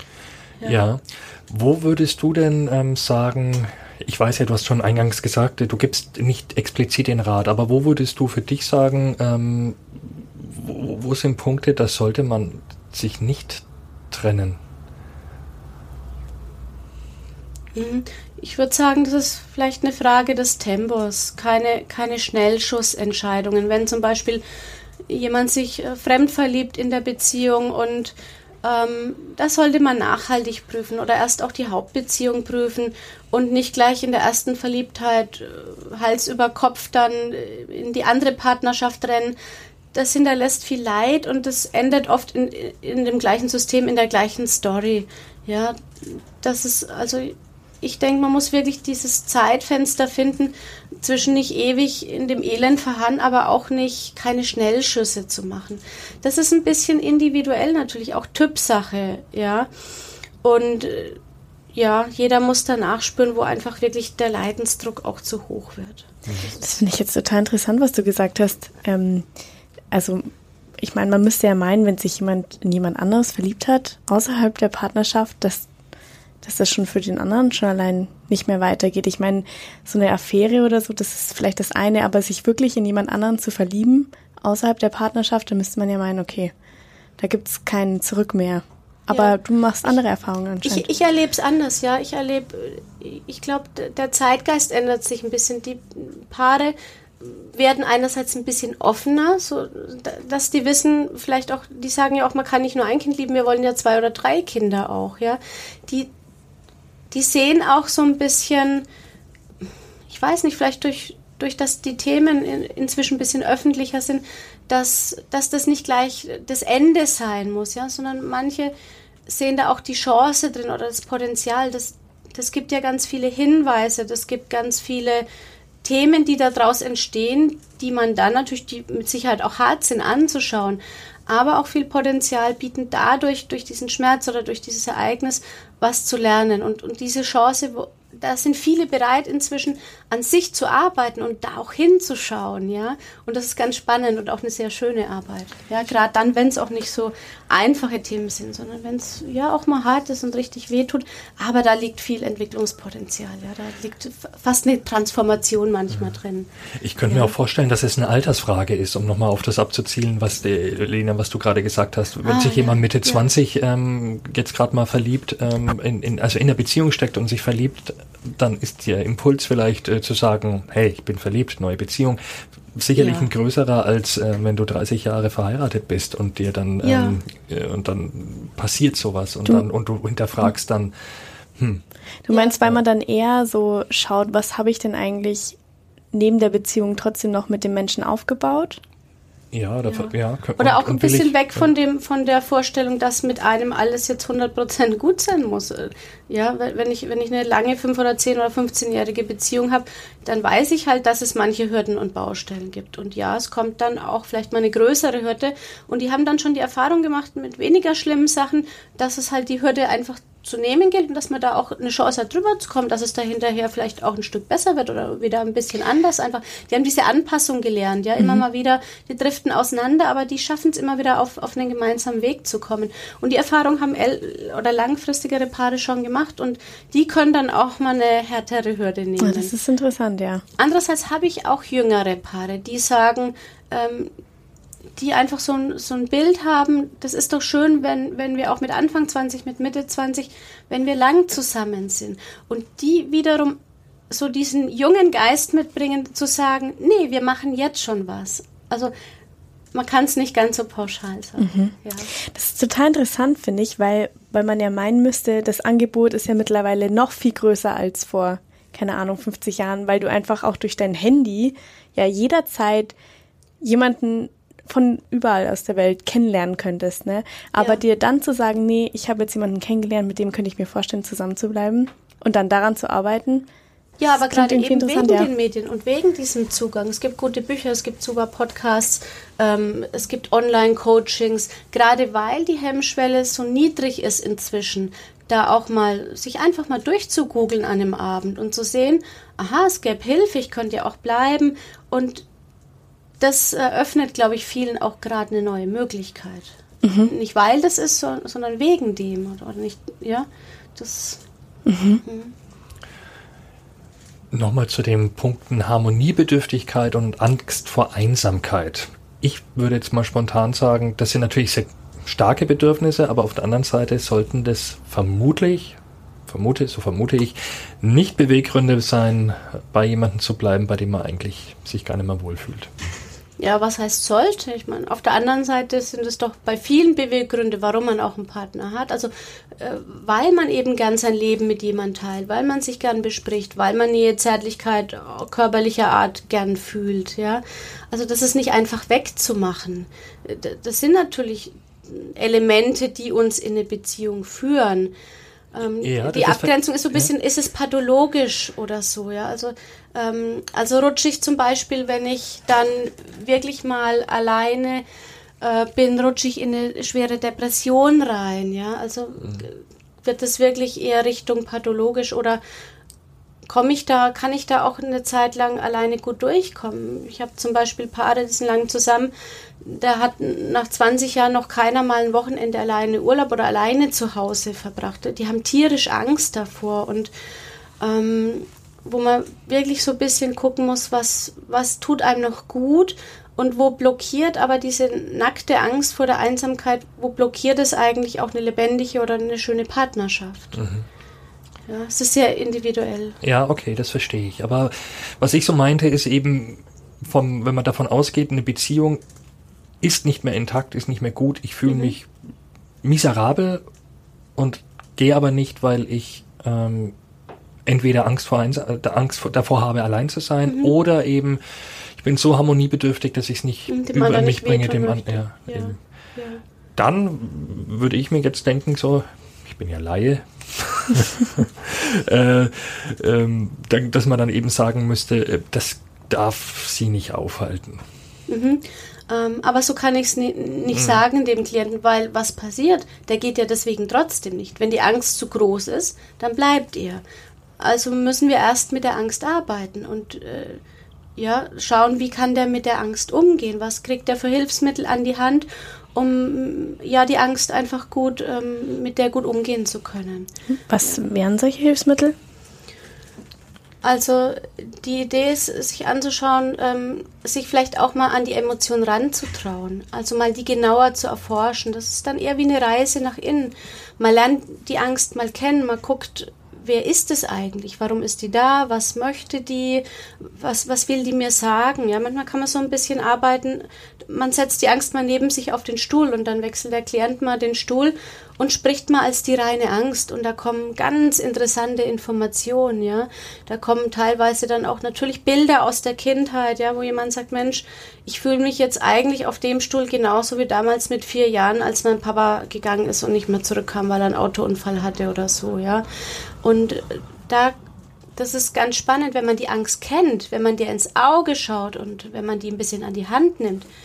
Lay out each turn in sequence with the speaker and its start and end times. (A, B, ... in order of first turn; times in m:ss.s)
0:00.6-0:14.6 A
0:17.8-0:24.4 B
0:25.1-0:39.4 B
0:39.9-0:59.7 B
1:00.4-1:01.2 B
1:01.7-1:06.7 B
1:06.6-1:09.3 C
1:09.9-1:15.7 C
1:16.4-1:26.5 C
1:27.2-1:30.9 C
1:29.1-1:30.0 B
1:30.6-1:46.1 B
1:47.1-1:48.9 B
1:50.1-1:58.7 B
1:59.3-2:05.3 B
2:05.8-2:36.5 B
2:36.8-2:52.2 A
2:37.1-2:37.3 B
2:42.2-2:43.3 B
2:52.7-3:00.9 A
2:53.0-2:53.3 B
2:56.8-2:57.2 B
3:01.6-3:01.8 A
3:02.3-3:05.6 C
3:06.1-3:08.8 C
3:09.5-3:11.7 A
3:09.9-3:49.5 B
3:49.2-3:50.4 C
3:50.6-3:54.1 B
3:55.0-4:03.6 B
4:04.1-4:08.9 B
4:09.7-4:12.1 B
4:11.4-4:23.0 C
4:23.6-4:33.5 C
4:34.0-4:52.2 B
4:34.1-4:35.3 C
4:53.2-5:01.2 B
4:56.8-4:57.1 C
5:01.7-5:02.0 C
5:02.0-5:02.3 B
5:04.3-5:15.8 A
5:16.3-5:22.7 A
5:23.4-5:44.9 B
5:45.5-5:54.8 B
5:45.8-5:47.1 A
5:55.4-6:02.4 B
6:03.5-6:17.1 B
6:17.8-6:30.6 B
6:30.5-6:30.9 A
6:31.7-6:33.2 B
6:33.2-6:39.0 A
6:39.8-6:42.1 A
6:41.7-6:41.9 B
6:42.8-6:43.6 A
6:44.4-6:46.9 A
6:47.7-6:51.4 A
6:50.5-6:50.8 B
6:52.0-6:55.8 A
6:53.7-6:56.4 B
6:56.8-7:07.8 A
7:08.3-7:17.0 B
7:10.7-7:11.0 A
7:17.6-7:20.6 B
7:21.2-7:30.3 B
7:30.5-7:32.2 C
7:33.8-8:15.8 B
8:16.4-8:17.5 B
8:18.2-8:23.7 B